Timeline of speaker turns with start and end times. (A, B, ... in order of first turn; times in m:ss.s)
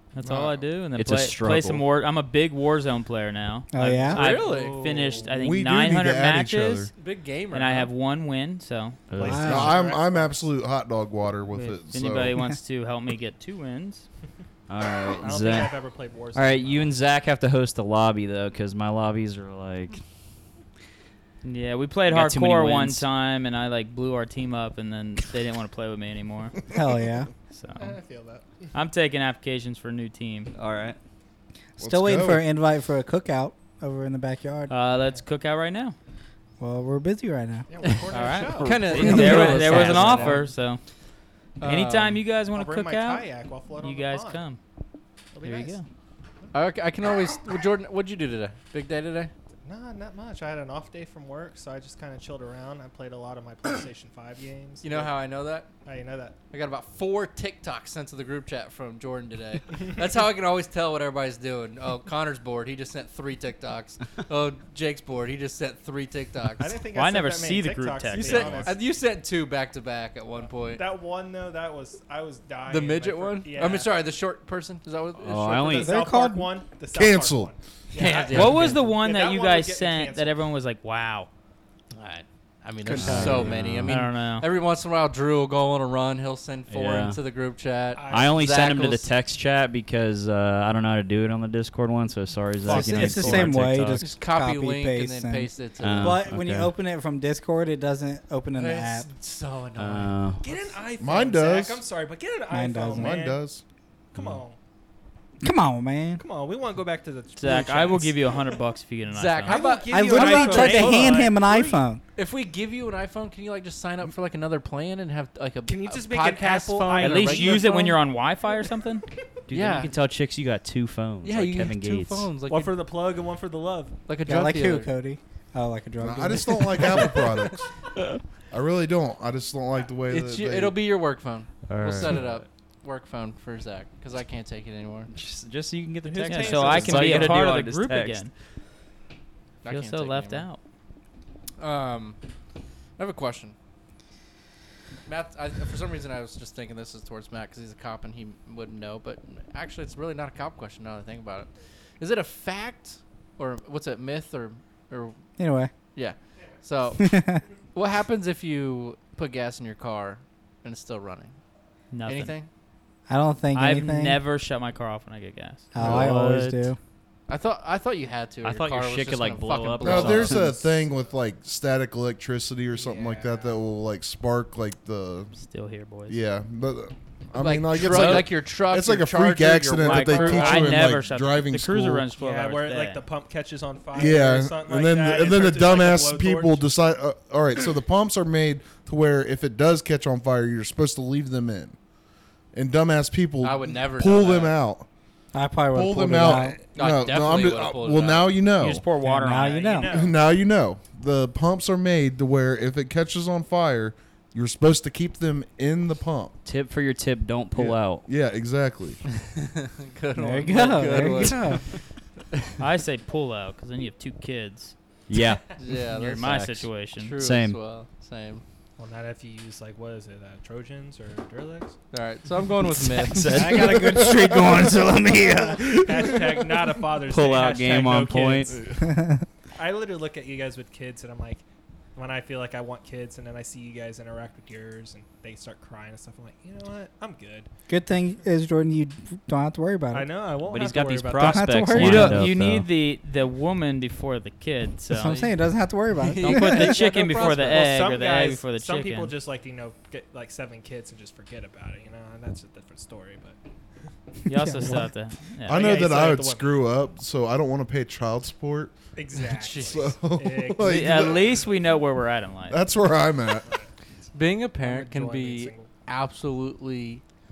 0:00.1-0:06.9 A
0:00.2-0:00.6 B
0:01.0-0:01.8 C
0:03.7-0:04.2 D
0:04.1-0:04.8 E
0:04.2-0:05.4 B
0:05.3-0:06.9 F
0:06.9-0:07.9 E
0:07.5-0:09.1 A
0:09.1-0:09.5 C
0:09.2-0:10.5 B
0:09.2-0:09.7 D
0:09.3-0:12.4 F
0:11.5-0:14.0 A
0:14.7-0:15.8 C
0:15.2-0:17.0 B
0:16.3-0:20.0 C
0:21.4-0:26.5 A
0:22.1-0:23.0 C
0:26.7-0:27.3 D
0:27.5-0:27.9 A
0:27.8-0:28.7 B
0:28.7-0:30.5 A
0:30.5-0:31.0 C
0:31.8-0:34.7 D
0:31.8-0:32.4 F
0:34.7-0:35.9 A
0:36.6-0:37.7 D
0:37.7-0:39.8 B
0:38.1-0:40.8 A
0:38.4-0:40.4 C
0:38.4-0:40.4 E
0:41.6-0:42.2 E
0:41.6-0:44.6 A
0:42.5-0:44.4 B
0:45.3-0:45.8 B
0:45.4-0:45.8 A
0:46.5-0:49.3 E
0:49.6-0:55.2 B
0:54.8-0:55.7 E
0:55.8-0:56.4 B
0:56.5-1:06.7 E
1:06.6-1:08.8 B
1:06.9-1:08.7 A
1:08.1-1:10.8 E
1:10.4-1:13.9 B
1:12.7-1:15.7 E
1:15.2-1:15.9 C
1:15.5-1:20.4 B
1:15.7-1:16.5 D
1:16.9-1:17.5 F
1:17.9-1:18.8 E
1:18.3-1:21.3 A
1:21.9-1:29.1 E
1:22.8-1:23.6 D
1:23.0-1:24.0 C
1:23.8-1:24.5 A
1:26.7-1:27.2 C
1:27.9-1:28.7 B
1:28.1-1:34.0 C
1:32.7-1:39.1 D
1:32.7-1:33.5 B
1:34.0-1:36.2 E
1:35.8-1:36.7 C
1:38.5-1:40.2 E
1:39.8-1:40.4 C
1:40.4-1:43.4 B
1:41.0-1:41.8 F
1:42.5-1:43.2 D
1:42.9-1:43.6 F
1:44.1-1:44.6 B
1:45.4-1:46.2 D
1:46.2-1:48.6 B
1:47.4-1:49.7 A
1:49.1-1:51.2 E
1:49.5-1:51.8 B
1:49.9-1:52.0 D
1:52.2-1:58.0 E
1:55.6-1:58.0 B
1:57.0-1:59.0 A
1:59.5-2:02.3 C
1:59.5-1:59.9 E
2:01.2-2:02.7 E
2:02.5-2:03.9 B
2:04.1-2:04.9 E
2:04.2-2:07.2 D
2:06.0-2:07.7 F
2:08.5-2:10.8 F
2:10.1-2:15.1 E
2:11.7-2:12.3 C
2:15.1-2:18.3 C
2:16.0-2:17.5 B
2:16.2-2:18.3 A
2:19.6-2:20.5 E
2:19.6-2:20.6 A
2:21.6-2:22.2 E
2:23.0-2:23.5 E
2:25.1-2:35.2 E
2:35.4-2:35.7 D
2:35.9-2:37.2 E
2:37.0-2:37.4 D
2:37.7-2:41.4 E
2:41.9-2:42.3 A
2:42.0-2:42.5 E
2:43.1-2:44.2 D
2:43.5-2:46.5 A
2:45.7-2:46.8 D
2:45.8-2:46.1 F
2:47.3-2:50.6 E
2:48.4-2:50.6 C
2:49.8-2:55.4 F
2:52.7-2:53.6 B
2:55.3-2:56.2 A
2:56.1-3:02.1 F
2:57.4-3:00.8 E
2:57.8-2:58.3 A
2:59.8-3:03.0 A
3:02.1-3:06.7 B
3:03.9-3:11.8 F
3:12.5-3:14.8 F
3:13.4-3:14.6 E
3:15.3-3:16.6 D
3:15.7-3:18.9 F
3:16.8-3:18.3 E
3:18.6-3:19.9 A
3:19.0-3:20.0 D
3:19.4-3:20.2 B
3:19.9-3:26.4 F
3:26.4-3:28.1 C
3:27.6-3:29.0 F
3:29.4-3:31.6 E
3:30.2-3:31.6 D
3:32.6-3:34.7 A
3:35.1-3:36.6 C
3:35.6-3:38.4 E
3:36.0-3:37.2 A
3:37.2-3:37.6 C
3:38.8-3:41.8 B
3:41.9-3:43.2 E
3:42.6-3:44.0 C
3:43.2-3:46.3 D
3:43.4-3:43.7 B
3:43.8-3:44.6 F
3:45.5-3:48.6 B
3:47.0-3:48.5 C
3:48.5-3:48.8 F
3:48.8-3:49.2 D
3:49.6-3:51.4 B
3:51.9-3:57.5 B
3:57.7-4:00.1 D
3:59.9-4:01.8 B
4:00.4-4:02.7 C
4:01.1-4:02.3 D
4:01.7-4:05.3 A
4:04.9-4:06.8 D
4:06.0-4:07.6 E
4:06.2-4:09.1 A
4:06.8-4:13.4 B
4:14.3-4:15.8 A
4:14.3-4:14.9 D
4:15.4-4:18.8 F
4:15.5-4:16.6 B
4:19.0-4:21.5 B
4:19.2-4:19.9 E
4:19.6-4:21.4 F
4:20.6-4:22.6 A
4:22.5-4:23.4 F
4:24.1-4:27.0 E
4:24.6-4:25.7 B